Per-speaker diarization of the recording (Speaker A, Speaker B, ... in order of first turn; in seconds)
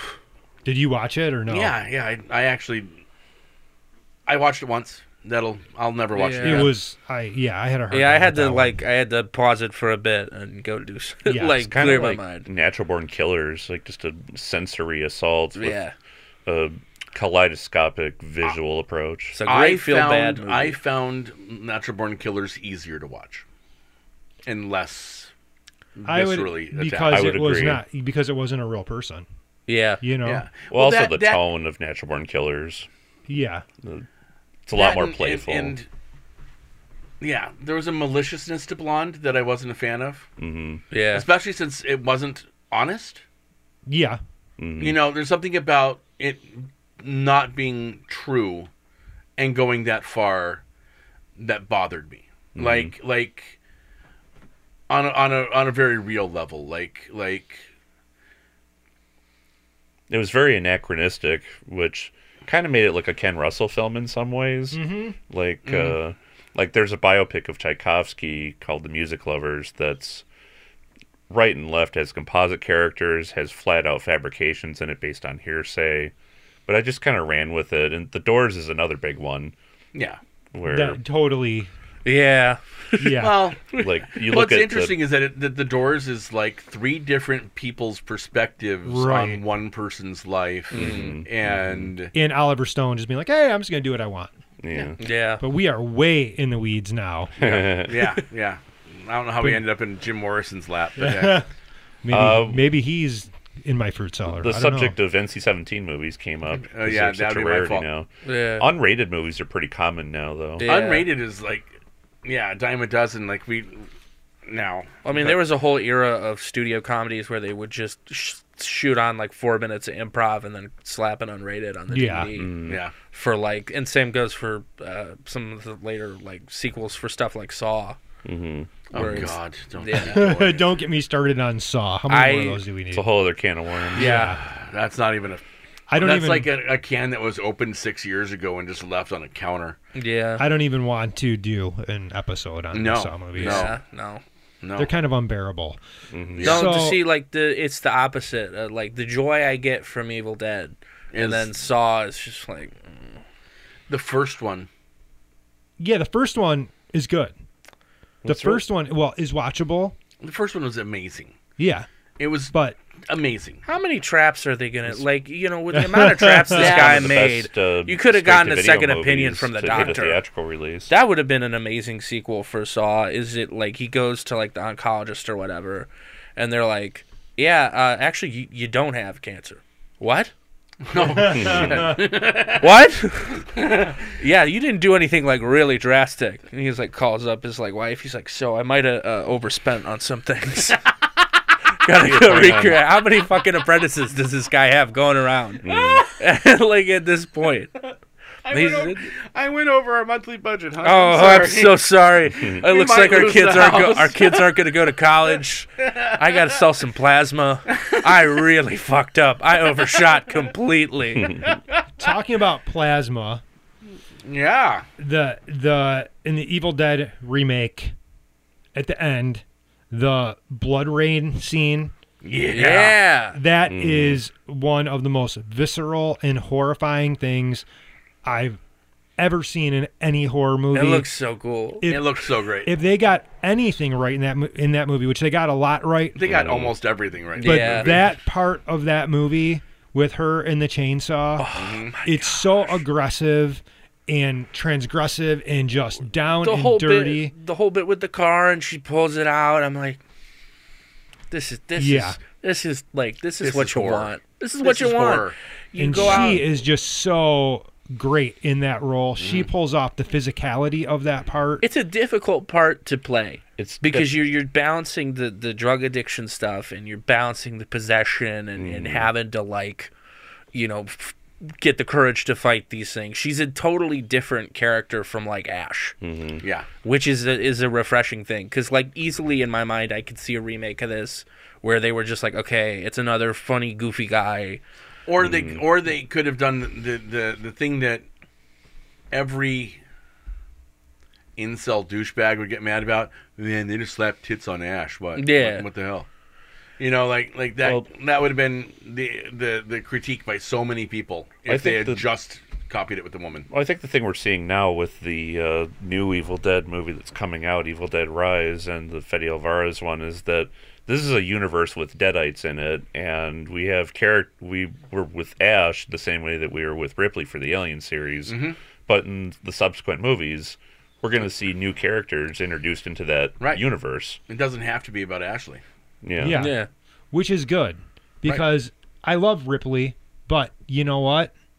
Speaker A: 0.6-1.7, 6.4-8.8, 11.2-12.1, 26.1-29.2, 30.0-30.5, 33.3-33.6, 43.9-44.2, 64.7-65.2, 80.6-81.7, 83.0-83.5, 88.8-89.4, 92.1-94.3, 95.4-97.3, 101.0-101.5, 102.0-105.0, 121.9-122.3, 129.9-133.0, 133.9-134.4, 135.9-136.5, 140.4-143.7, 144.8-145.8, 146.4-147.0, 155.8-157.3, 158.2-159.9, 161.6-161.9, 162.5-162.8, 165.7-166.8, 181.2-181.8, 211.9-213.4, 215.0-217.9, 218.7-221.9, 223.3-227.6, 228.2-228.6, 229.2-231.1, 231.8-236.2, 237.4-241.5, 242.0-247.3, 251.8-252.2, 255.8-261.6, 326.2-331.3
Speaker B: 1.5-3.0, 4.2-6.7, 19.4-23.4, 24.4-25.3, 25.9-27.4, 30.2-31.4, 34.7-35.9, 37.2-40.3, 41.1-43.2, 44.8-48.7, 49.4-50.6, 51.4-53.6, 54.9-57.7, 65.7-66.0, 79.9-80.2, 83.2-92.1, 97.4-101.4, 106.5-107.8, 110.6-111.7, 112.2-113.9, 114.5-114.9, 122.7-122.9, 128.9-130.7, 134.0-135.4, 136.0-139.8, 142.7-143.8, 144.6-144.9, 146.3-146.8, 151.1-151.5, 153.9-154.7, 160.2-161.3, 162.2-162.5, 163.1-163.6, 166.8-167.1, 180.8-182.7, 183.4-184.0, 198.4-204.6, 205.8-206.2, 214.2-214.9, 222.2-223.0, 231.8-232.7, 236.1-238.1, 241.5-241.9, 253.4-255.3, 259.2-259.5, 276.4-276.7, 285.1-288.1, 289.1-289.8, 291.4-296.1, 296.8-303.5, 318.3-318.6, 324.3-325.6
Speaker C: 6.1-6.7, 7.9-12.4, 15.6-15.9, 19.3-20.8, 29.7-30.0, 40.9-41.2, 82.0-83.8, 90.7-91.2, 95.0-95.4, 108.2-108.7, 110.6-111.1, 115.0-128.0, 128.9-130.2, 132.1-132.6, 133.9-134.4, 139.9-140.4, 143.4-144.2, 146.4-153.2, 163.6-170.2, 170.9-180.3, 182.6-183.5, 184.1-190.8, 191.8-197.8, 198.5-199.1, 200.8-211.4, 222.5-223.4, 230.7-231.9, 237.4-238.0, 241.4-242.8, 246.4-250.0, 251.3-256.4, 261.6-269.9, 270.5-275.9, 276.8-284.6, 295.2-295.6, 326.3-326.7
Speaker D: 11.7-15.8, 16.4-19.4, 27.1-27.8, 30.7-32.9, 34.6-35.8, 40.4-40.8, 44.6-45.0, 52.5-52.9, 60.1-70.2, 71.3-76.1, 76.7-79.5, 80.5-81.0, 83.7-84.9, 90.7-91.9, 94.6-95.0, 97.4-98.1, 102.1-102.7, 104.3-110.7, 122.3-122.8, 128.2-129.3, 132.9-134.1, 146.1-146.5, 158.2-158.6, 166.5-170.9, 181.2-181.9, 192.0-192.8, 195.6-196.1, 223.7-224.2, 236.2-236.7, 263.6-264.2, 268.6-269.1, 276.0-276.4, 285.2-285.6, 297.6-297.9, 301.5-302.0, 303.5-324.2, 326.0-326.5